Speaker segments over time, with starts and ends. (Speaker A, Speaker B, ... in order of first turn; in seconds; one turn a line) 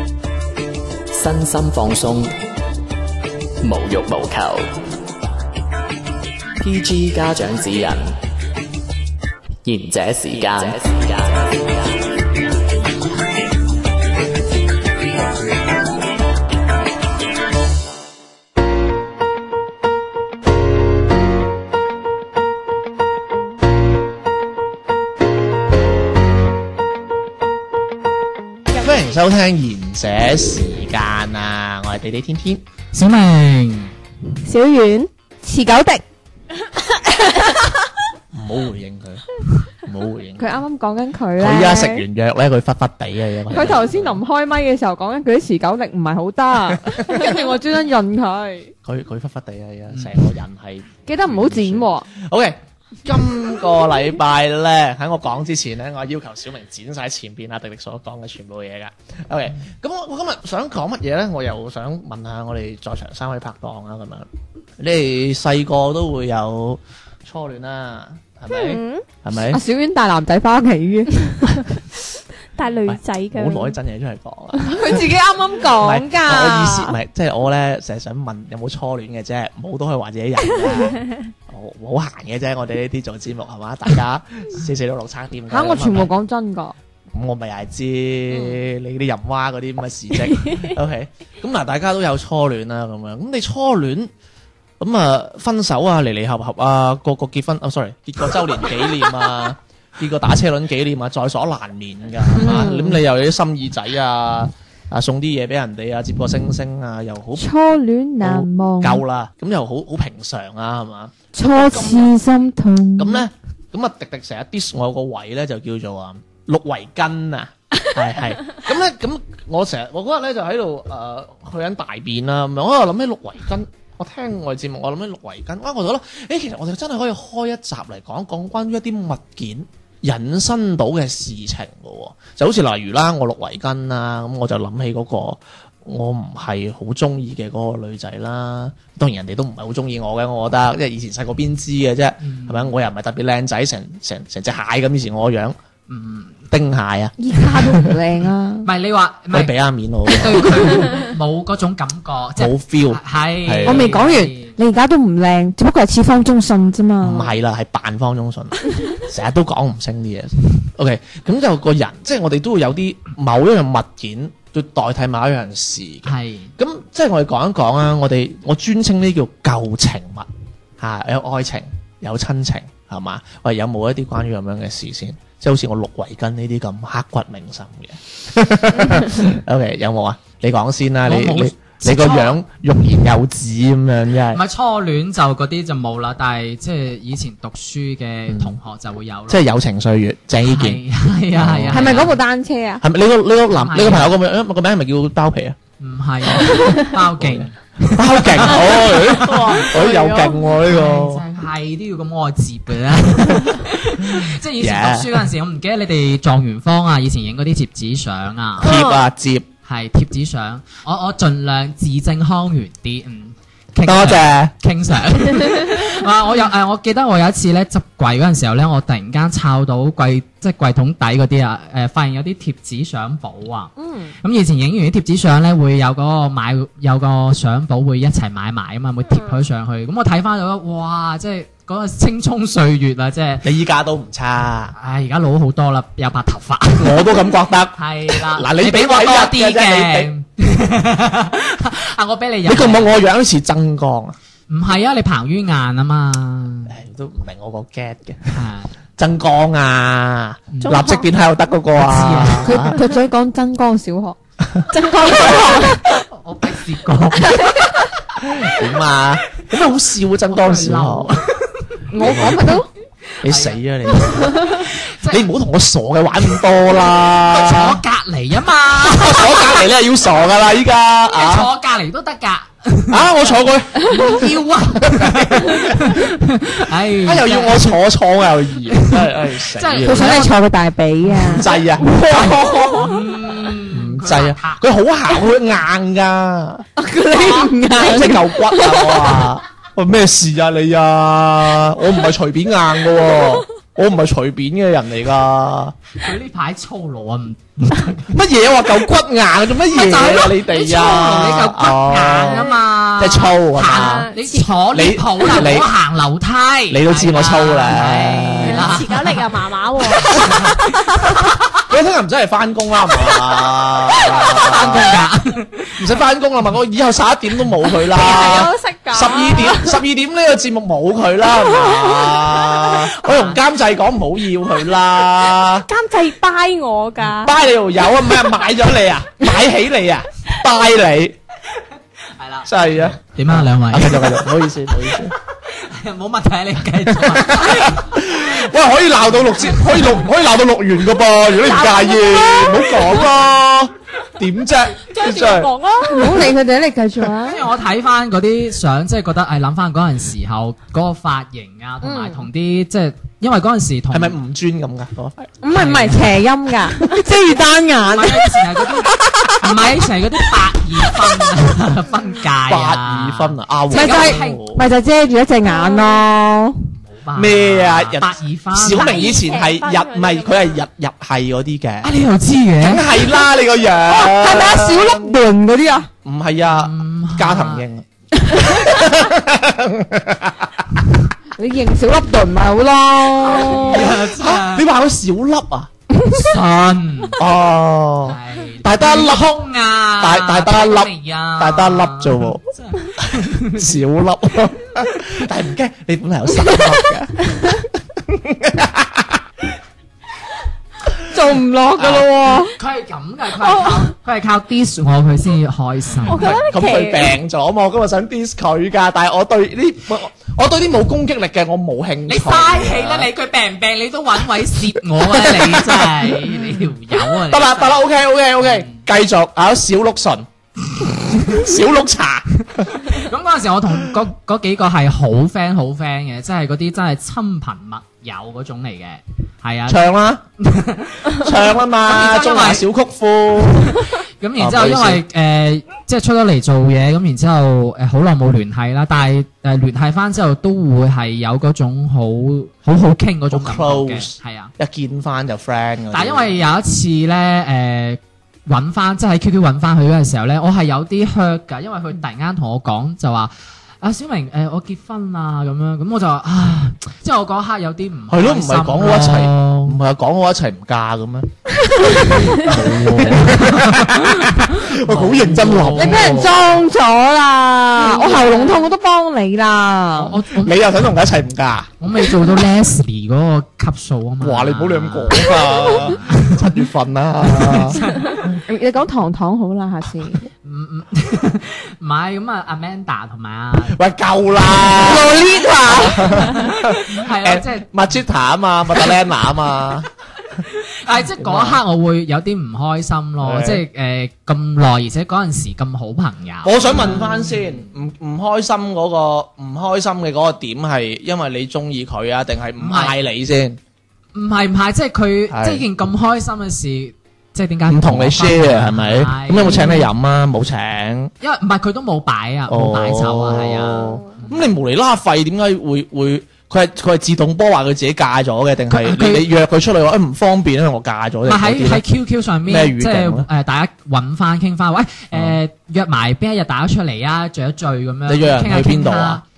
Speaker A: 1.1-2.3
Speaker A: 3.6-4.7
Speaker A: 6.6-8.2
Speaker A: 9.7-11.9
Speaker B: 28.8-32.6
Speaker C: 32.9-33.9
Speaker D: 34.5-35.1
Speaker E: 35.4-36.0
Speaker B: 38.3-40.6
Speaker E: 40.4-42.0
Speaker B: 41.4-44.2
Speaker E: 43.5-48.7
Speaker B: 46.8-47.2
Speaker B: 48.8-69.6
Speaker E: 51.1-52.1
Speaker D: 68.5-69.0
Speaker E: 69.5-71.6
Speaker D: 72.6-73.8
Speaker B: 72.9-75.1
Speaker E: 74.6-77.0
Speaker B: 75.7-86.1
Speaker D: 80.8-81.2
Speaker E: 85.5-86.8
Speaker B: 87.1-94.1
Speaker D: 90.4-90.7
Speaker B: 94.8-107.5
Speaker E: 102.4-103.0
Speaker E: 107.4-109.0
Speaker B: 108.2-112.1
Speaker E: 111.3-113.2
Speaker B: 113.0-145.6
Speaker C: 142.2-142.8
Speaker C: 145.9-146.4
Speaker B: 146.5-147.9
Speaker E: 147.2-148.7
Speaker C: 148.7-149.5
Speaker B: 149.3-150.9
Speaker C: 150.1-154.6
Speaker B: 152.4-154.0
Speaker E: 153.7-157.3
Speaker B: 157.0-170.3
Speaker C: 166.1-166.5
Speaker B: 170.8-184.4
Speaker C: 181.1-182.4
Speaker C: 184.3-189.5
Speaker B: 188.3-188.6
Speaker B: 189.3-192.1
Speaker C: 190.4-192.2
Speaker E: 191.7-192.8
Speaker B: 192.8-195.6
Speaker C: 193.6-194.2
Speaker C: 195.8-199.7
Speaker B: 196.2-201.2
Speaker D: 198.7-200.4
Speaker C: 200.6-208.7
Speaker B: 204.0-205.2
Speaker B: 208.6-209.5
Speaker D: 208.6-209.0
Speaker C: 209.7-233.5
Speaker B: 213.8-214.5
Speaker E: 223.8-224.2
Speaker B: 233.4-234.7
Speaker C: 234.8-243.0
Speaker B: 236.8-240.1
Speaker B: 242.5-244.2
Speaker C: 244.5-246.7
Speaker B: 246.7-252.8
Speaker C: 248.3-248.7
Speaker C: 250.5-250.8
Speaker D: 250.6-251.1
Speaker C: 251.8-252.7
Speaker E: 252.4-254.2
Speaker B: 254.5-255.7
Speaker D: 254.7-255.4
Speaker E: 254.7-255.8
Speaker C: 255.9-257.8
Speaker B: 258.2-261.2
Speaker C: 260.3-262.4
Speaker E: 261.9-262.7
Speaker B: 262.0-262.6
Speaker B: 263.2-267.8
Speaker C: 263.2-265.3
Speaker C: 267.2-269.7
Speaker B: 268.8-271.5
Speaker C: 271.1-277.8
Speaker B: 272.9-276.0
Speaker B: 277.0-280.3
Speaker C: 278.7-280.4
Speaker E: 279.8-282.9
Speaker B: 281.1-282.7
Speaker C: 282.8-284.6
Speaker B: 283.7-286.7
Speaker E: 286.8-289.2
Speaker C: 287.1-287.5
Speaker B: 287.7-295.8
Speaker C: 296.0-298.1
Speaker B: 298.1-304.1
Speaker C: 299.7-309.3
Speaker D: 302.3-302.6
Speaker D: 303.7-304.5
Speaker B: 304.7-305.7
Speaker B: 306.7-308.8
Speaker D: 308.4-310.2
Speaker B: 309.9-310.6
Speaker C: 310.0-311.5
Speaker B: 311.7-315.0
Speaker C: 314.0-315.9
Speaker B: 315.8-325.7
Speaker D: 317.9-319.8
Speaker C: 323.0-323.4
Speaker D: 325.6-327.4
Speaker B: 327.2-331.2
Speaker C: 332.2-334.4
Speaker B: 332.4-335.2
Speaker C: 335.5-338.0
Speaker B: 336.9-345.5
Speaker C: 339.2-340.0
Speaker D: 341.4-343.0
Speaker D: 344.9-346.3
Speaker E: 345.9-347.4
Speaker C: 347.2-354.2
Speaker E: 351.8-352.2
Speaker B: 353.9-355.3
Speaker E: 355.4-358.7
Speaker C: 355.5-356.2
Speaker C: 357.8-364.4
Speaker B: 362.5-364.6
Speaker E: 363.7-366.7
Speaker D: 365.6-365.9
Speaker C: 366.8-369.3
Speaker B: 367.2-371.9
Speaker D: 368.7-370.6
Speaker C: 371.8-372.9
Speaker B: 372.6-375.2
Speaker E: 373.9-375.9
Speaker B: 376.0-380.8
Speaker C: 376.5-377.6
Speaker E: 381.4-383.9
Speaker B: 383.3-385.7
Speaker C: 383.3-384.7
Speaker C: 386.1-387.2
Speaker B: 387.2-389.4
Speaker C: 388.1-393.8
Speaker B: 390.0-392.4
Speaker B: 393.0-399.2
Speaker E: 401.1-402.6
Speaker B: 401.8-402.1
Speaker C: 402.4-406.4
Speaker D: 403.4-403.8
Speaker D: 406.1-407.1
Speaker B: 406.1-413.1
Speaker C: 412.1-417.9
Speaker B: 415.0-422.9
Speaker C: 418.4-418.8
Speaker C: 422.8-432.7
Speaker B: 429.7-430.2
Speaker B: 431.2-433.8
Speaker C: 433.6-444.5
Speaker B: 434.4-435.0
Speaker B: 443.3-446.4
Speaker C: 445.9-459.8
Speaker B: 458.1-466.4
Speaker E: 461.6-462.3
Speaker C: 462.4-466.3
Speaker E: 465.7-470.2
Speaker D: 467.8-468.7
Speaker C: 469.9-470.6
Speaker B: 470.4-471.7
Speaker C: 471.8-476.5
Speaker B: 474.2-477.8
Speaker C: 477.2-478.2
Speaker E: 478.5-480.3
Speaker C: 480.4-483.8
Speaker B: 483.7-489.9
Speaker E: 484.7-486.3
Speaker C: 486.4-487.9
Speaker C: 490.4-497.5
Speaker B: 491.2-491.6
Speaker B: 493.2-493.6
Speaker B: 496.4-503.6
Speaker C: 502.6-502.9
Speaker C: 504.1-509.6
Speaker B: 505.3-505.7
Speaker B: 507.7-511.1
Speaker E: 509.4-509.9
Speaker C: 511.2-514.5
Speaker B: 512.5-521.8
Speaker C: 518.7-519.3
Speaker C: 521.3-529.2
Speaker B: 522.5-523.3
Speaker B: 525.1-525.4
Speaker B: 528.1-529.2